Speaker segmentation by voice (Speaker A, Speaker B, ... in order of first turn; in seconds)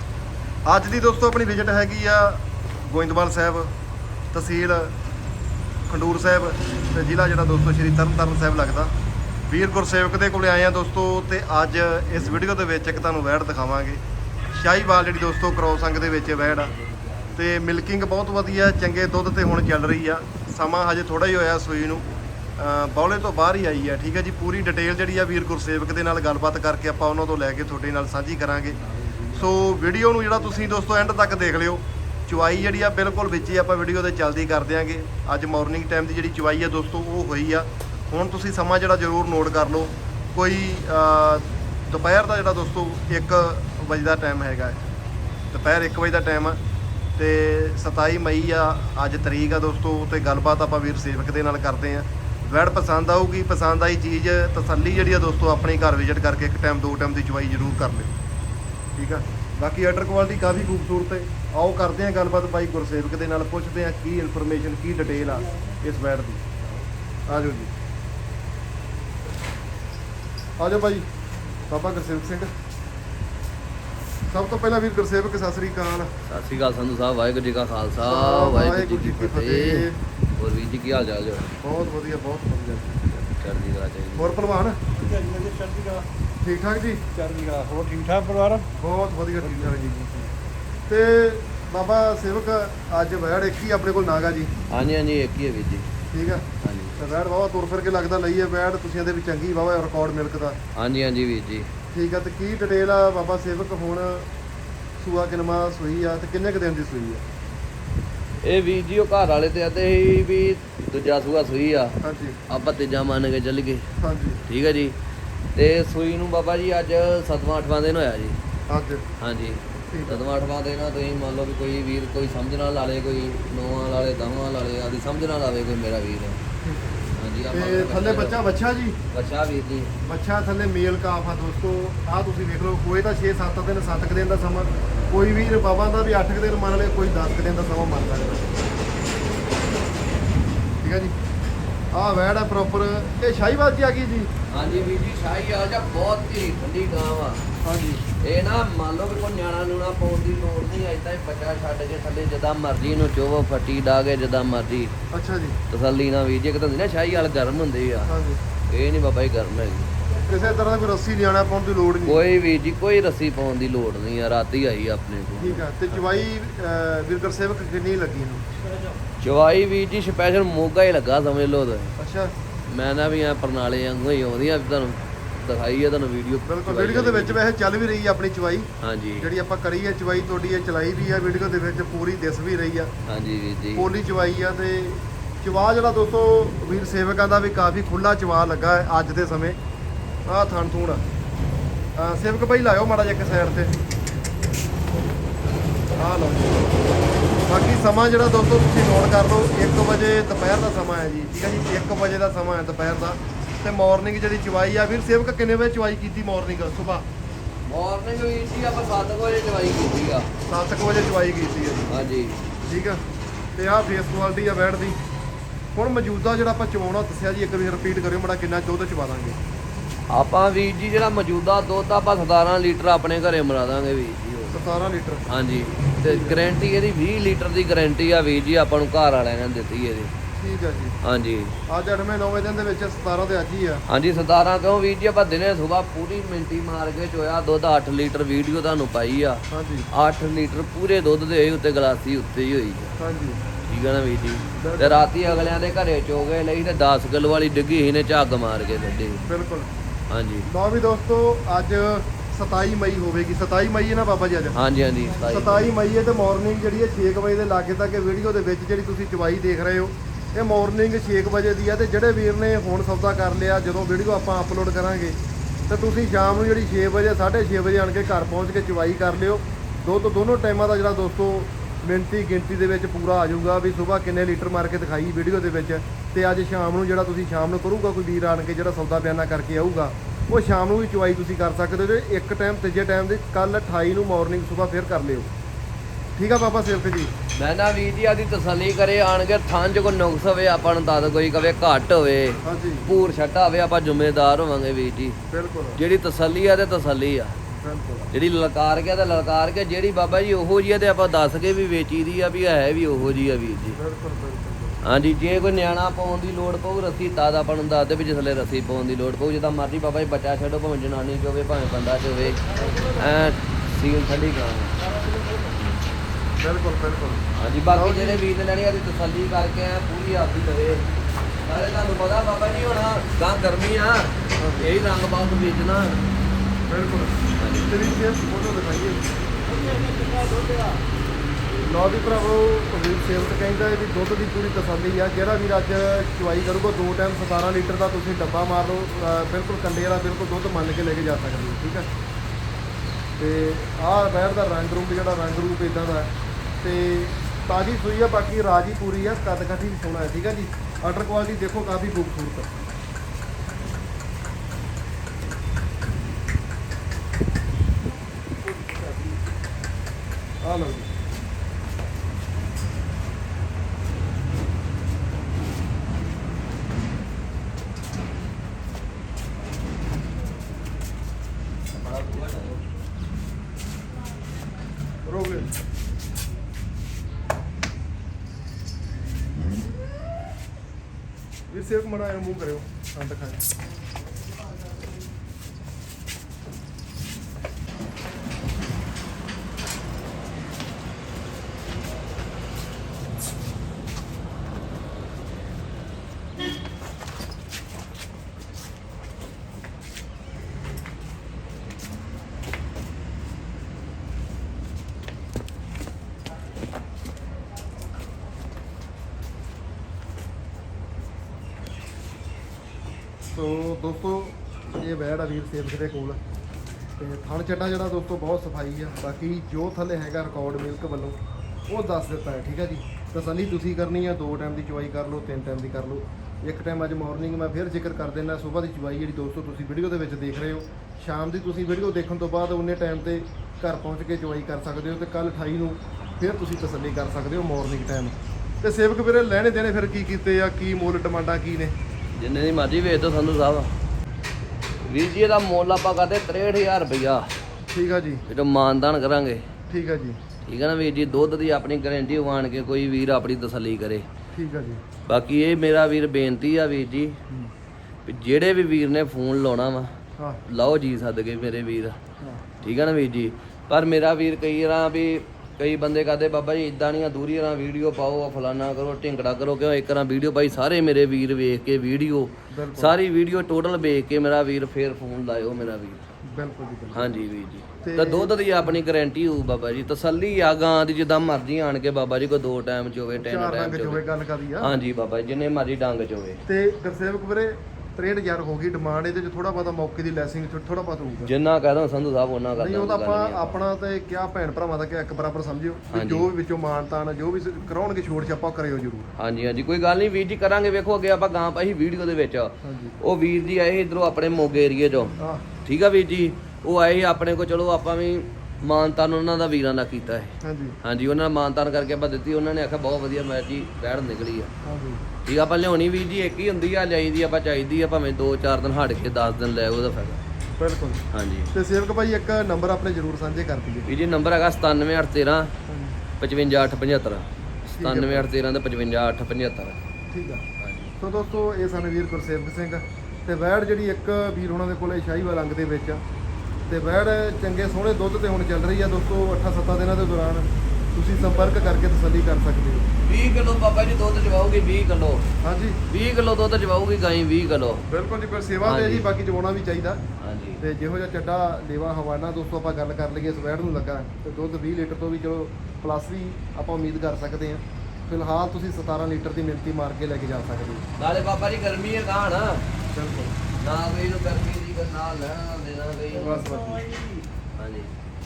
Speaker A: 0.7-3.7, 4.3-4.9, 5.9-8.9, 9.5-14.0, 14.5-16.7, 17.3-22.1, 22.6-44.8, 45.5-46.6, 47.2-58.1, 59.0-66.4, 67.3-67.7, 70.6-71.0, 71.7-72.5, 74.3-76.1, 78.0-80.0, 81.6-83.3, 84.2-84.8, 86.4-87.1, 88.8-90.0, 90.9-94.5, 96.1-96.5, 97.0-100.6, 101.9-104.2, 105.0-107.2, 112.0-112.4, 114.0-114.4, 118.7-119.0, 119.9-120.2, 126.6-129.0, 130.0-138.5, 140.8-141.1, 141.9-144.3, 147.6-148.0, 155.1-155.6, 158.0-158.4, 160.2-162.2, 165.4-168.4, 172.0-172.3, 176.4-178.7, 179.2-182.9, 183.8-189.6, 190.2-191.0, 192.0-193.8, 195.9-196.7, 197.5-207.1, 210.5-211.9, 212.7-213.0, 213.6-215.0, 215.7-219.4, 224.5-225.3, 226.0-226.5, 230.4-231.0, 231.7-233.8, 239.5-239.9, 243.0-243.4, 244.6-245.2, 249.3-249.7, 250.4-254.6, 255.3-265.2, 265.7-285.3, 286.1-287.1, 292.4-292.9, 295.3-295.8, 297.5-298.1, 303.7-304.8, 312.6-313.0, 316.4-318.2, 324.4-324.7, 326.7-327.2, 327.7-329.0, 331.6-341.9, 343.2-346.1, 346.6-352.5, 360.4-360.9, 375.0-375.5, 381.5-383.4, 413.3-416.2, 417.0-441.7, 447.7-448.2, 449.7-450.2, 454.3-454.8, 462.2-462.4, 472.5-473.0, 476.3-477.2, 477.8-478.3, 483.2-484.8, 486.4-491.3, 492.5-499.1, 502.6-502.9, 505.2-505.4, 510.4-510.8, 514.6-515.0, 520.6-521.0, 521.5-523.9, 525.7-526.0, 527.7-528.3, 530.1-530.4, 531.0-536.0, 536.7-542.9, 545.4-545.8, 547.9-550.0, 550.6-560.9, 562.9-563.3, 566.1-567.0
Speaker B: 65.2-65.7, 84.9-86.1, 87.1-88.7, 89.4-90.3, 168.7-169.0, 315.0-315.6, 329.4-330.8, 566.8-567.2
Speaker C: 76.3-81.5, 83.3-84.4, 94.7-95.9, 96.6-97.0, 100.8-101.7, 108.4-112.0, 112.5-113.8, 114.5-115.0, 115.5-118.4, 119.2-126.4, 127.2-128.4, 129.1-129.9, 144.5-147.5, 148.2-154.9, 155.7-158.1, 158.7-160.0, 162.0-165.7, 169.2-171.9, 172.7-177.4, 178.8-179.3, 183.1-183.9, 207.7-210.3, 211.9-212.4, 220.1-224.6, 225.3-230.1, 231.0-231.6, 233.9-242.9, 243.6-249.3, 250.1-250.5, 254.5-255.7, 287.3-295.2, 295.8-297.4, 298.1-303.8, 304.8-314.8, 317.3-320.9, 321.4-326.1, 327.4-327.7, 371.8-372.6, 442.1-443.7, 444.8-447.3, 448.3-449.4, 450.4-454.1, 455.1-457.2, 458.1-459.9, 460.4-462.0, 462.6-476.0, 476.9-484.0, 484.6-486.4, 491.2-493.6, 495.9-496.3, 499.2-514.5, 515.2-520.2, 521.1-521.5, 523.9-525.5, 526.2-527.2, 527.8-529.8, 530.6-530.9, 543.0-545.3, 545.9-547.9, 548.6-549.1, 550.2-550.6, 561.0-562.6, 563.6-566.5, 567.6-567.9